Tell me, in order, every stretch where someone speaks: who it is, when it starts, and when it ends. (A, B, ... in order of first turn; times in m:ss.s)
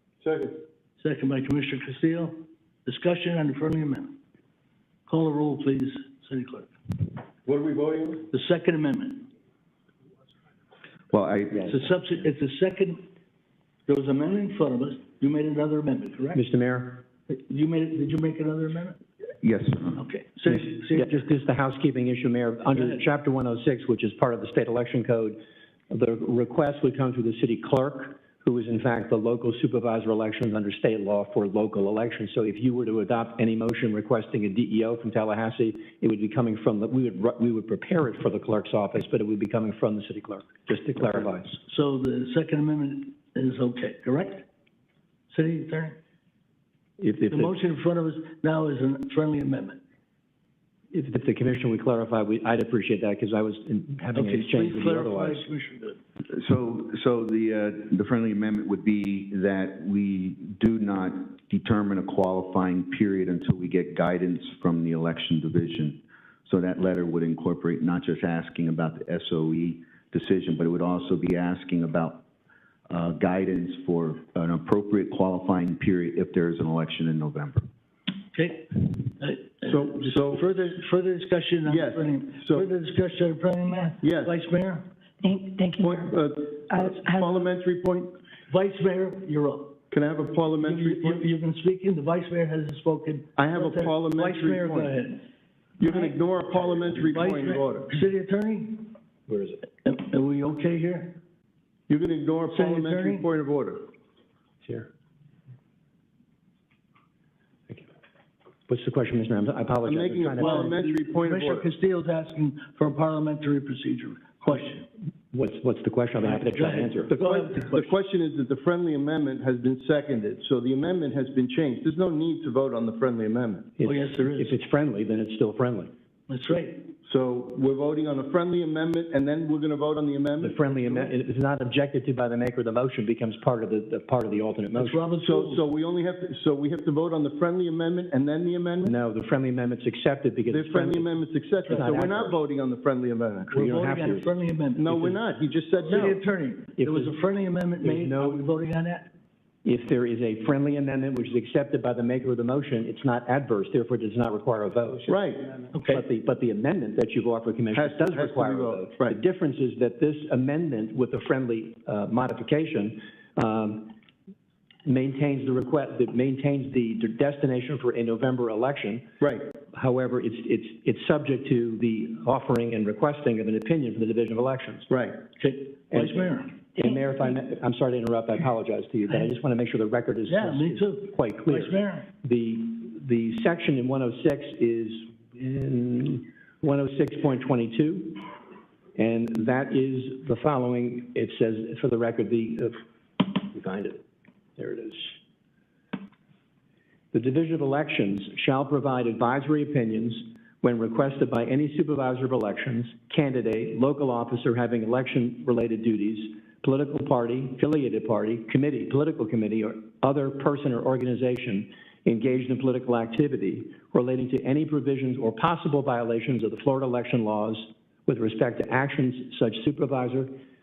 0:00.2-0:00.6 A
0:01.0-0:04.1 B
0:05.1-0:06.7 B
0:07.4-0:08.3 A
0:08.3-0:09.3 B
0:11.1-0:11.8 C
0:11.5-0:13.1 B
0:13.9-0:16.4 B
0:16.4-0:17.0 D
0:17.3-0:19.0 B
0:19.4-0:20.0 C
0:20.0-0:21.2 B
0:20.5-0:25.4 D
0:22.7-0:23.0 B
0:25.9-0:41.6 D
0:41.7-0:44.5 B
0:45.3-0:46.0 B
0:47.0-0:47.6 D
0:47.3-0:49.8 B
0:50.9-0:55.5 D
0:54.2-0:56.0 B
0:56.3-1:12.2 C
1:12.9-1:17.6 C
1:18.3-1:24.9 B
1:19.7-1:20.4 A
1:21.7-1:22.7 A
1:24.0-1:24.4 A
1:25.2-1:27.5 E
1:25.8-1:28.2 A
1:28.5-1:29.8 B
1:29.9-1:31.3 A
1:30.6-1:35.2 B
1:33.4-1:35.0 A
1:35.8-1:37.9 A
1:36.9-1:38.9 B
1:39.3-1:39.6 D
1:39.8-1:41.2 B
1:41.9-1:43.9 A
1:42.5-1:43.3 B
1:48.7-1:50.8 D
1:49.8-1:51.7 A
1:50.4-1:54.9 B
1:55.3-1:57.8 D
1:56.2-1:57.7 B
1:57.6-2:03.7 A
2:03.8-2:05.9 D
2:03.8-2:04.6 B
2:06.3-2:06.9 B
2:07.0-2:11.1 A
2:10.4-2:15.0 D
2:14.7-2:15.6 B
2:15.2-2:18.9 A
2:18.8-2:22.4 D
2:20.5-2:23.6 A
2:21.7-2:22.0 B
2:23.5-2:24.3 D
2:23.5-2:25.2 B
2:24.8-2:26.2 A
2:25.9-2:29.1 B
2:26.8-2:27.1 D
2:27.8-2:28.4 D
2:29.6-2:35.1 D
2:35.0-2:35.6 A
2:35.7-2:36.0 B
2:35.9-2:43.9 D
2:37.7-2:39.2 A
2:44.8-2:49.1 D
2:49.2-2:49.5 A
2:49.7-2:54.9 D
2:54.9-2:55.2 A
2:55.4-2:56.5 B
2:55.9-3:08.3 D
3:00.3-3:02.1 B
3:09.0-3:14.0 D
3:14.6-3:15.2 D
3:17.1-3:40.3 D